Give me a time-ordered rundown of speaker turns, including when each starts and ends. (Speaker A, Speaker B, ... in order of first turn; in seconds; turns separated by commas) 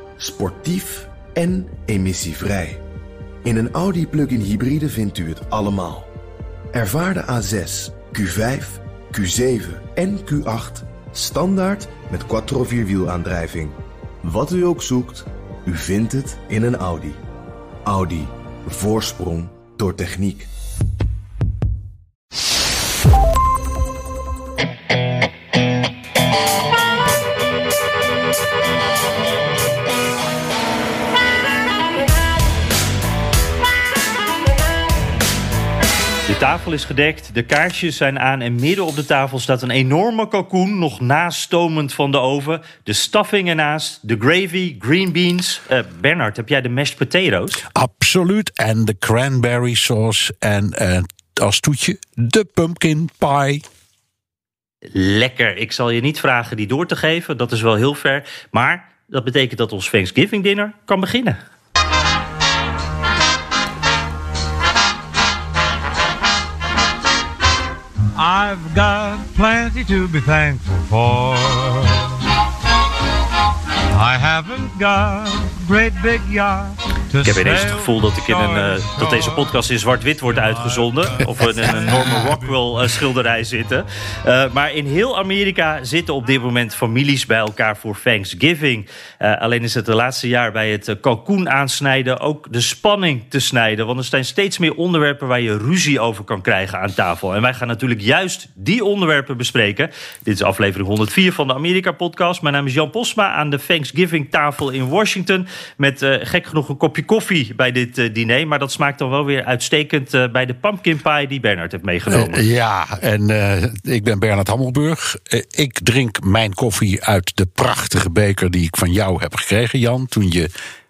Speaker A: 0.2-2.8, Speaker A: 3.4-6.1, Speaker A: 6.7-17.2, Speaker A: 17.9-20.5, Speaker B: 36.3-47.6, Speaker C: 47.7-53.6, Speaker B: 54.9-61.4, Speaker D: 68.2-72.2, Speaker D: 73.9-79.6, Speaker B: 77.2-112.4, Speaker D: 80.2-83.0, Speaker C: 112.1-120.5